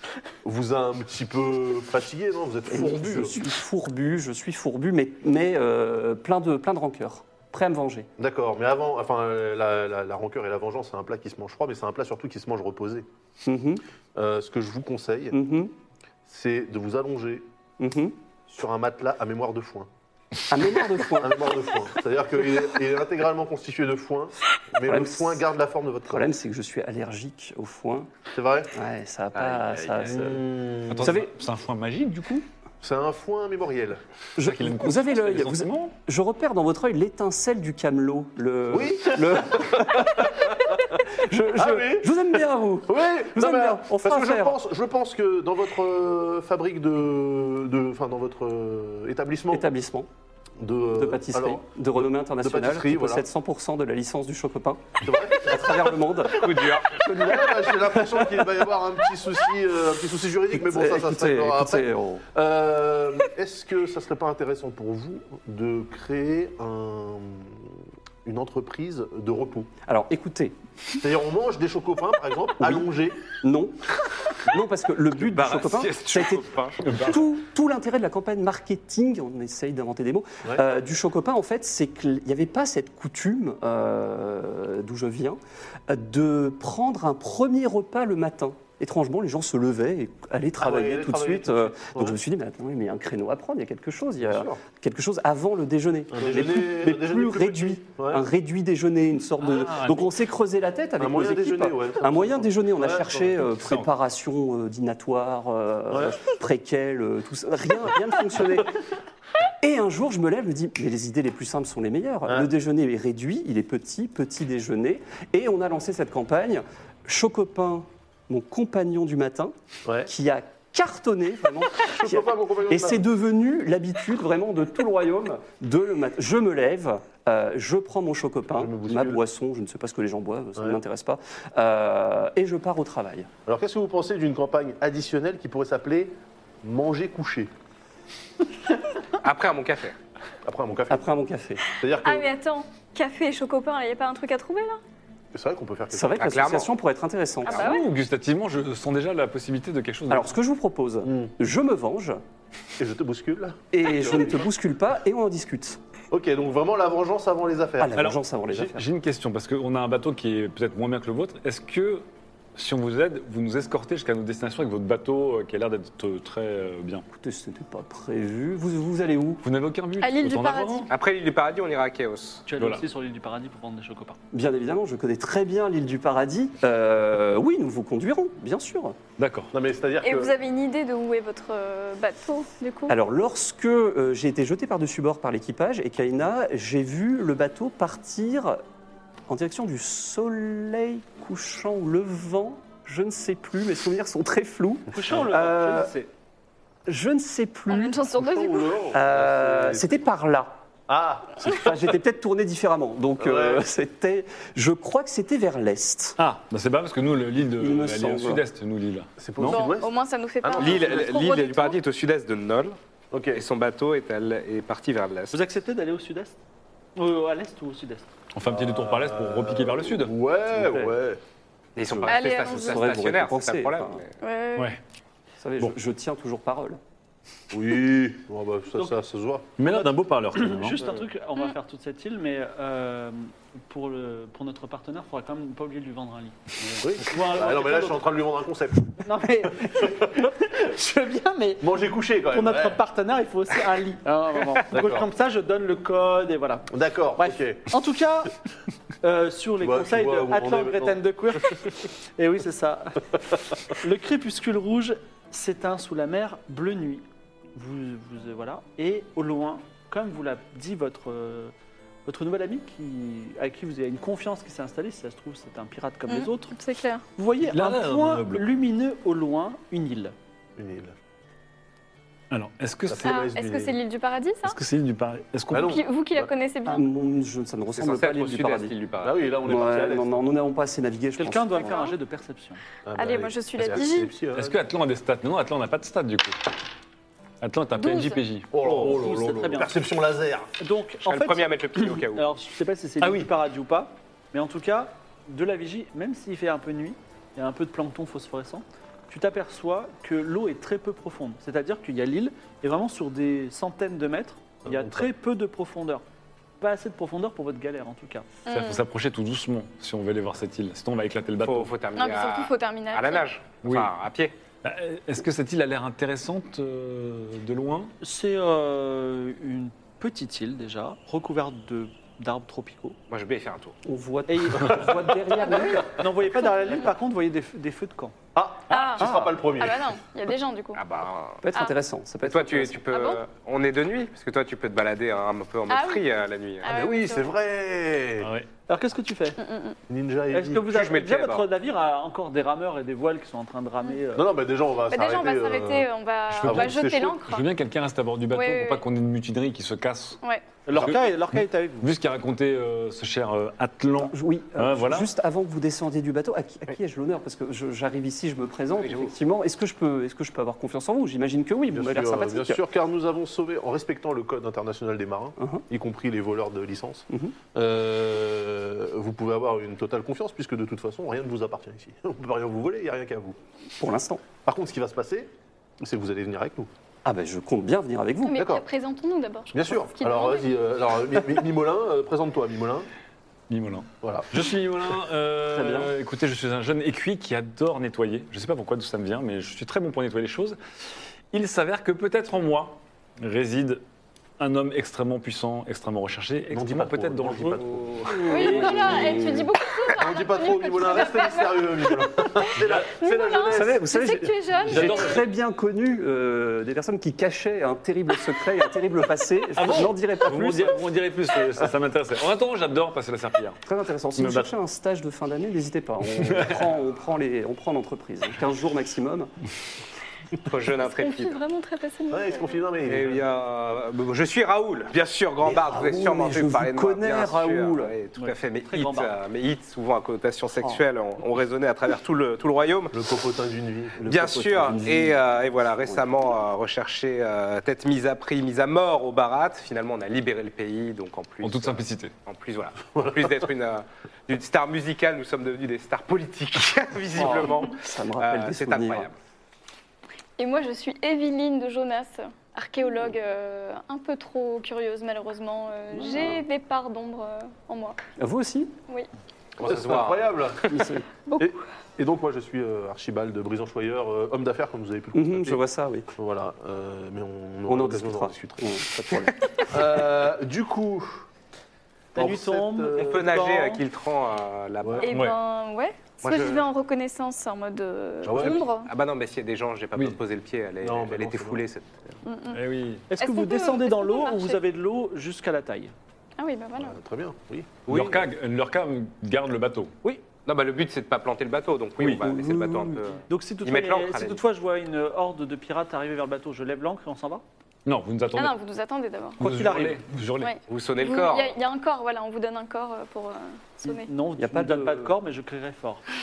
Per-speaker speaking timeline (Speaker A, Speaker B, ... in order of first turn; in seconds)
Speaker A: 0.4-3.4, 8.2-13.1, 14.2-15.4, 16.3-17.5, 18.5-19.9, 21.2-26.3, 28.3-28.7, 30.0-31.2, 32.8-34.0, 38.7-41.0, 41.6-42.3, 42.9-49.7, 50.6-53.2, 55.0-67.7, 68.2-69.7, 71.0-73.3, 90.6-92.2, 94.2-94.6, 96.1-98.2, 101.0-103.4, 105.9-106.2, 121.9-123.0, 128.5-129.2, 133.5-137.5, 140.4-141.2, 141.8-142.3, 145.3-146.5, 151.1-151.3, 152.8-154.5, 156.1-158.0, 179.5-180.3, 198.1-200.0, 200.9-201.9, 203.2-203.6, 209.2-209.9, 210.4-211.1, 213.1-213.4, 218.4-221.2, 227.5-229.5, 236.8-239.1, 239.7-240.1, 241.6-242.8, 244.7-245.1, 246.7-247.6, 249.6-251.0, 270.6-270.9, 272.9-273.8, 275.5-276.3, 279.0-280.1, 282.9-284.6, 288.5-290.5, 304.6-305.1, 328.4-330.0, 336.7-338.3, 339.9-340.7, 344.1-345.9, 346.4-347.2, 361.7-373.4, 374.4-376.7, 378.4-378.6, 379.5-382.9, 384.0-384.4, 396.5-403.8, 422.1-423.3, 432.9-434.0, 442.9-443.4, 459.6-460.7, 461.4-465.6, 466.2-468.8, 469.7-471.2, 472.1-473.2, 474.8-475.1, 478.2-478.7, 480.8-481.6, 486.8-487.9
Speaker B: 2.7-8.1, 13.4-13.8, 15.3-15.7, 17.8-18.2, 20.5-21.6, 24.9-25.4, 26.1-28.1, 28.7-30.5, 31.0-31.3, 34.4-44.6, 49.5-50.1, 50.9-58.3, 60.5-62.2, 69.9-70.6, 72.6-73.8, 74.5-108.7, 109.6-133.3, 140.9-141.6, 145.9-147.7, 150.1-152.2, 153.7-155.8, 157.8-158.8, 167.1-169.4, 174.3-179.0, 182.9-188.6, 189.3-195.9, 196.9-198.0, 198.9-200.6, 201.4-206.2, 207.6-208.4, 220.5-220.9, 221.9-224.0, 225.4-226.8, 276.7-278.8, 279.4-281.8, 323.9-326.0, 329.0-329.3, 331.4-332.9, 354.0-362.6, 365.4-365.6, 367.1-367.4, 373.8-374.2, 377.1-378.4, 385.5-385.9, 398.1-399.5, 403.5-410.8, 413.7-419.3, 425.4-427.9, 434.0-436.1, 447.1-449.1, 456.0-456.4, 458.2-458.8, 460.7-461.1, 465.1-466.1, 467.7-469.7, 492.0-493.1, 504.4-505.2
Speaker C: 30.9-32.5, 34.4-35.9, 76.8-77.2, 99.5-100.1, 103.6-103.9, 147.6-150.3, 158.0-167.1, 169.4-170.9, 172.6-172.8, 179.2-179.5, 206.2-209.7, 218.3-220.2, 229.6-230.8, 267.4-268.5, 272.3-273.2, 274.4-275.8, 284.3-286.4, 287.4-289.0, 308.5-311.7, 313.6-313.9, 314.6-317.9, 338.2-338.5, 346.3-350.2, 350.7-355.1, 383.5-390.6, 391.3-393.8, 394.4-399.3, 402.6-402.9, 404.7-405.2, 409.6-413.6, 414.2-414.5, 416.2-416.5, 441.4-442.1, 475.1-475.4, 482.5-483.1, 487.9-489.9, 497.9-498.6, 499.4-500.6
Speaker D: 56.3-57.1, 75.3-76.8, 139.2-140.0, 146.2-146.7, 170.9-172.5, 210.6-212.8, 213.3-215.4, 221.8-224.1, 277.8-279.3, 291.1-292.3, 311.4-314.4, 323.1-323.8, 330.8-331.4, 332.2-336.7, 340.7-341.5, 358.8-359.1, 420.4-421.4, 422.9-433.0, 434.1-449.1, 459.6-460.8, 473.0-475.1, 476.2-476.6, 478.4-482.2, 487.9-488.3, 490.4-494.4, 500.7-501.6
Speaker E: 142.0-144.8, 147.5-147.8, 170.0-170.9, 180.0-182.9, 197.7-198.8, 209.5-211.8, 222.1-223.0, 224.2-224.8, 266.1-267.1, 273.0-274.6, 275.6-276.9, 281.6-282.0, 283.0-284.1, 287.8-288.2, 308.5-308.8, 312.0-313.3, 325.4-325.8, 326.4-326.9, 328.7-330.8, 332.9-333.2, 335.7-336.1, 336.6-337.4, 339.4-339.8, 344.9-347.5, 348.3-348.8, 378.2-380.5, 398.3-405.2, 420.8-422.6, 450.4-458.0, 475.0-478.9, 482.2-482.6, 483.2-484.6, 486.4-487.0, 498.3-499.4, 500.4-504.1
Speaker F: 172.5-174.2, 194.9-196.1, 215.3-216.4, 217.0-218.1, 229.6-238.0, 239.0-241.7, 242.3-248.3, 249.0-261.5, 262.1-266.5, 267.2-270.1, 281.2-282.6, 288.6-289.7, 290.6-306.0, 306.6-308.3, 318.0-323.0, 324.3-324.8, 325.8-328.1, 338.7-339.4, 340.3-344.3, 350.7-351.9, 428.2-429.2, 472.1-473.8, 483.1-485.9, 493.3-497.4, 499.4-500.0, 503.8-506.0